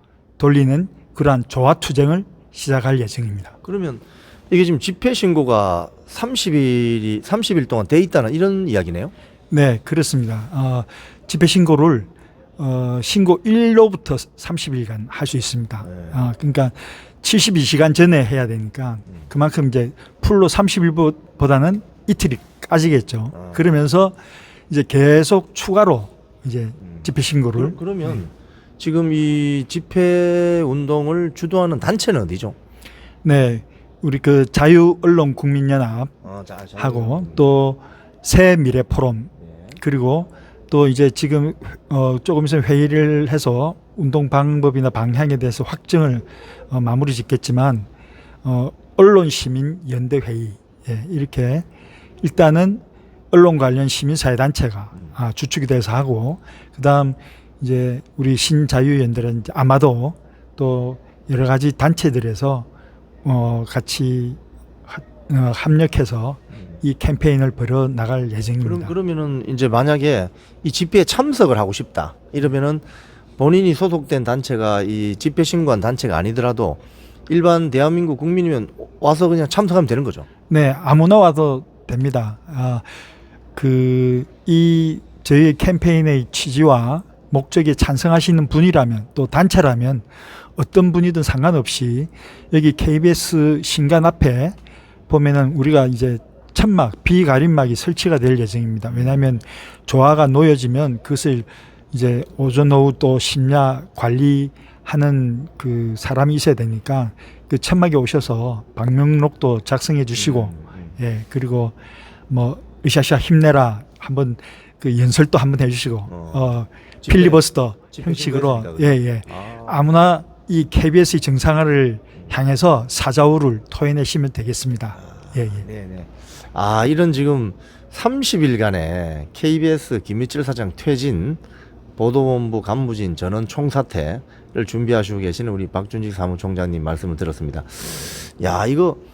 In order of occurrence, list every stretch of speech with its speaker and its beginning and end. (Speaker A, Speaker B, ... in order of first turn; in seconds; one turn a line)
Speaker A: 0.4-3.5
Speaker B: 3.6-9.1
Speaker A: 9.5-24.2
Speaker A: 24.7-28.2
Speaker B: 26.9-32.5
Speaker A: 33.2-36.1
Speaker B: 36.2-37.4
Speaker A: 36.8-47.9
Speaker B: 39.5-39.8
Speaker A: 48.4-51.7
Speaker A: 52.2-62.7
Speaker A: 63.2-68.9
Speaker B: 68.6-72.8
Speaker B: 73.4-80.2
Speaker A: 80.5-82.9
Speaker A: 83.5-94.5
Speaker A: 95.1-111.8
Speaker B: 98.9-99.2
Speaker B: 110.1-110.9
Speaker A: 112.3-125.7
Speaker B: 116.1-116.5
Speaker B: 117.0-119.7
Speaker B: 125.2-131.4
Speaker B: 132.0-139.0